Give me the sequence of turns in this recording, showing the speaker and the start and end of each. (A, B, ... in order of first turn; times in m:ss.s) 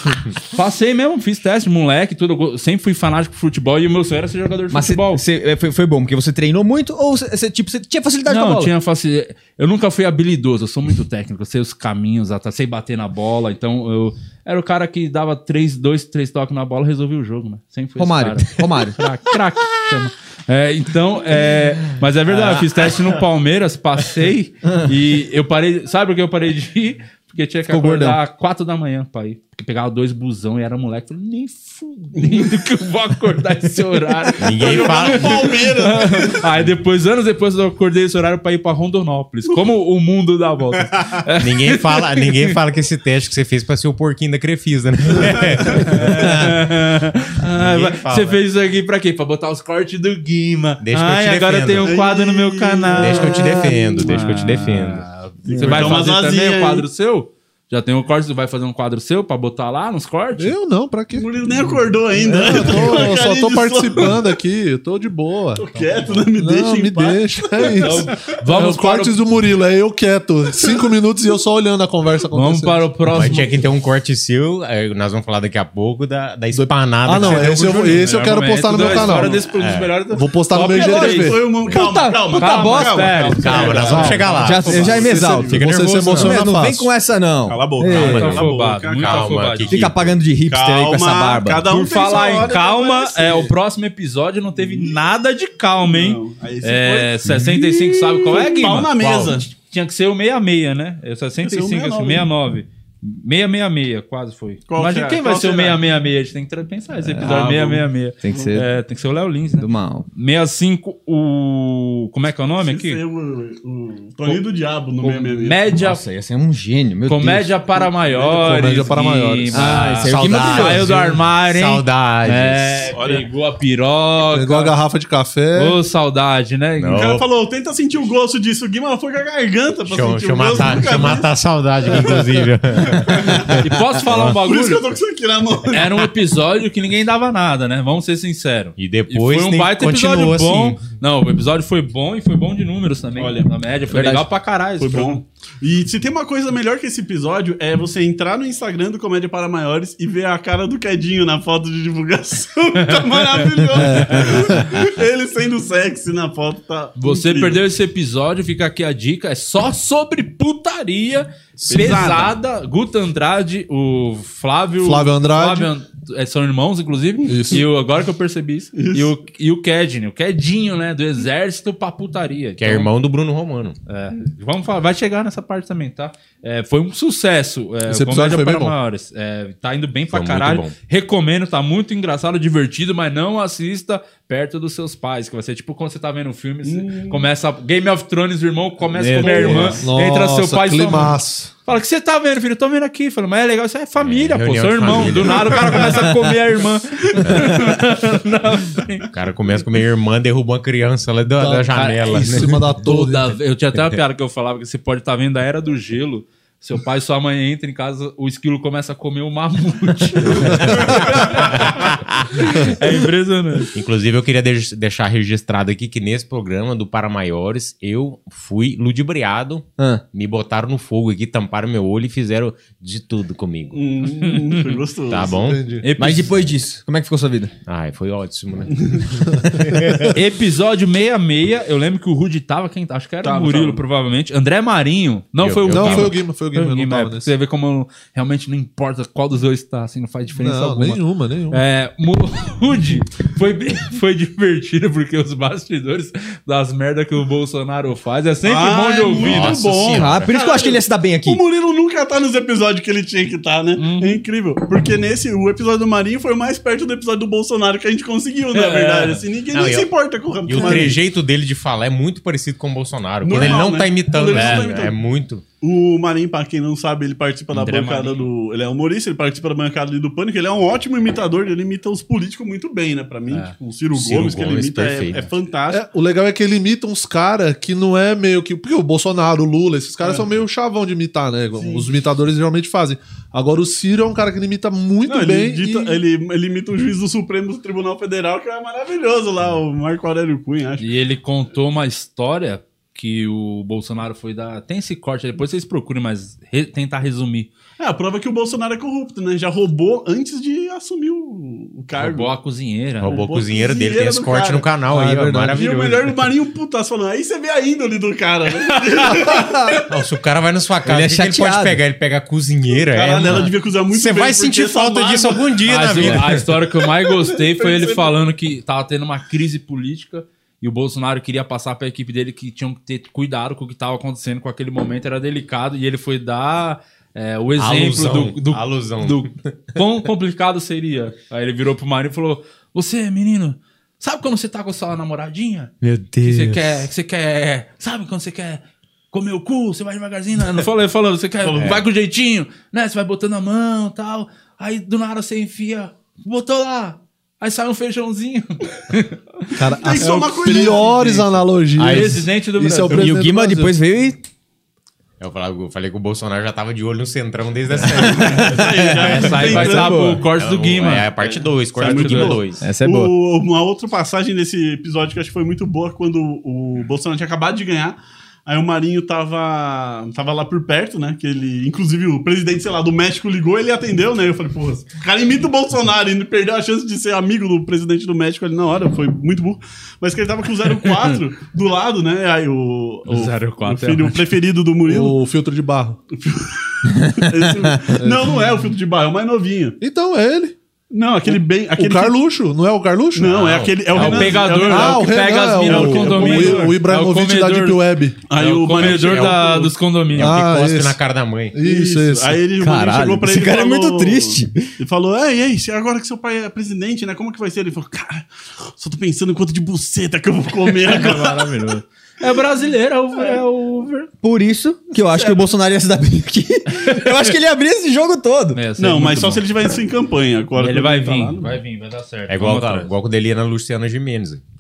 0:00.4-0:05.2 A
0:04.7-0:08.7 B
0:08.2-0:42.5 A
0:18.0-0:19.0 B
0:22.3-0:22.7 B
0:27.7-0:28.2 B
0:34.4-0:35.6 C
0:34.5-0:36.4 D
0:41.4-0:46.6 C
0:45.8-1:00.5 A
0:47.4-0:48.4 C
0:50.8-0:51.9 C
0:51.8-0:54.1 D
0:52.9-0:55.0 C
0:55.4-0:56.8 D
0:55.6-0:56.1 C
1:00.4-1:01.3 E
1:01.1-1:04.3 D
1:02.2-1:05.6 E
1:05.6-1:08.2 D
1:06.4-1:12.9 E
1:07.8-1:09.2 A
1:12.3-1:13.6 A
1:13.1-1:18.0 C
1:16.5-1:19.4 E
1:17.1-1:21.4 A
1:18.7-1:19.4 D
1:18.8-1:20.0 C
1:20.1-1:21.5 E
1:20.7-1:25.6 D
1:21.7-1:23.2 B
1:22.3-1:24.8 A
1:23.4-1:26.5 C
1:23.8-1:26.9 E
1:24.4-1:28.4 B
1:27.5-1:29.4 D
1:27.9-1:30.2 C
1:27.9-1:29.8 A
1:29.7-1:31.8 B
1:30.5-1:33.5 D
1:31.7-1:38.9 A
1:34.6-1:34.9 D
1:35.8-1:39.5 D
1:39.0-1:39.4 C
1:39.5-1:53.0 A
1:41.4-1:42.3 D
1:44.7-1:45.8 D
1:47.0-1:47.6 B
1:47.2-1:48.5 D
1:48.2-1:48.7 B
1:49.6-1:50.1 B
1:52.6-1:55.6 D
1:55.0-1:56.0 A
1:55.7-1:57.5 B
1:57.1-2:04.7 A
1:58.2-1:59.9 E
1:59.5-2:00.9 B
2:00.0-2:02.9 C
2:02.9-2:03.3 D
2:04.3-2:05.8 E
2:05.5-2:07.2 A
2:06.8-2:07.2 C
2:06.9-2:11.3 D
2:09.9-2:14.4 C
2:11.8-2:12.2 D
2:12.8-2:13.6 D
2:13.6-2:14.8 A
2:14.4-2:16.0 D
2:15.7-2:25.2 A
2:18.8-2:20.8 C
2:23.2-2:23.5 D
2:23.9-2:24.3 B
2:24.8-2:37.6 D
2:32.8-2:34.5 A
2:33.8-2:34.8 E
2:37.0-2:52.9 A
2:41.6-2:42.3 D
2:44.8-2:45.7 E
2:47.2-2:47.6 E
2:48.8-2:49.1 D
2:52.6-2:53.8 C
2:53.9-3:19.1 A
2:57.9-2:58.7 E
3:00.1-3:00.7 C
3:06.6-3:07.3 D
3:09.0-3:09.8 B
3:09.2-3:09.8 D
3:09.2-3:11.5 E
3:14.0-3:16.1 C
3:17.2-3:17.6 C
3:19.1-3:22.7 C
3:21.4-3:23.3 E
3:21.7-3:33.7 A
3:30.2-3:32.7 C
3:30.5-3:31.0 E
3:33.7-3:43.8 C
3:39.8-3:40.0 B
3:43.7-3:45.4 D
3:44.2-3:44.8 A
3:45.1-3:45.6 C
3:45.4-3:45.8 E
3:45.8-3:46.3 A
3:46.0-3:47.5 B
3:47.6-3:50.1 C
3:48.8-3:49.0 D
3:49.3-3:50.1 E
3:50.1-4:09.6 A
3:53.2-3:53.8 D
3:55.4-3:56.2 C
3:55.7-3:57.3 E
4:00.4-4:01.6 E
4:08.4-4:21.0 D
4:09.2-4:10.3 C
4:09.9-4:11.4 B
4:13.8-4:14.2 A
4:18.5-4:19.2 A
4:19.5-4:19.9 C
4:20.4-4:25.4 C
4:23.2-4:25.0 D
4:24.3-4:24.7 A
4:25.6-4:35.8 D
4:27.5-4:28.3 A
4:33.9-4:35.2 C
4:35.7-4:46.0 E
4:40.0-4:40.3 D
4:41.5-4:41.9 D
4:45.0-4:50.9 D
4:50.8-4:57.5 A
4:57.8-5:02.3 D
5:02.0-5:03.2 A
5:03.0-5:06.1 C
5:03.0-5:04.6 D
5:04.9-5:05.6 E
5:05.5-5:09.8 D
5:09.9-5:16.5 C
5:10.8-5:11.8 B
5:12.8-5:15.5 D
5:15.6-5:53.1 A
5:17.0-5:18.2 D
5:27.6-5:29.8 C
5:35.8-5:36.7 C
5:41.4-5:41.8 D
5:49.6-5:53.7 E
5:49.8-5:51.2 D
5:51.8-5:52.0 C
5:52.9-5:54.2 B
5:55.2-5:59.8 C
5:58.0-6:00.1 D
5:58.0-6:00.2 B
5:59.0-6:01.1 A
6:00.3-6:02.6 C
6:01.2-6:25.2 D
6:01.8-6:02.4 A
6:02.6-6:03.1 B
6:23.0-6:24.2 A
6:24.9-6:26.0 E
6:26.1-6:29.8 D
6:28.0-6:28.3 E
6:29.8-6:30.5 E
6:30.9-6:32.2 D
6:31.2-6:33.3 E
6:33.1-6:36.8 D
6:33.2-6:34.5 C
6:33.9-6:40.4 A
6:34.6-6:38.2 E
6:38.3-6:39.7 D
6:38.7-6:41.6 C
6:40.2-6:41.0 E
6:41.5-6:42.4 E
6:41.6-6:51.5 D
6:42.6-6:44.6 B
6:50.7-6:54.1 A
6:54.2-6:58.6 B
6:55.1-6:55.5 D
6:56.7-6:57.2 A
6:58.5-6:59.4 A
6:58.8-7:01.6 D
7:00.6-7:02.9 A
7:02.3-7:04.4 C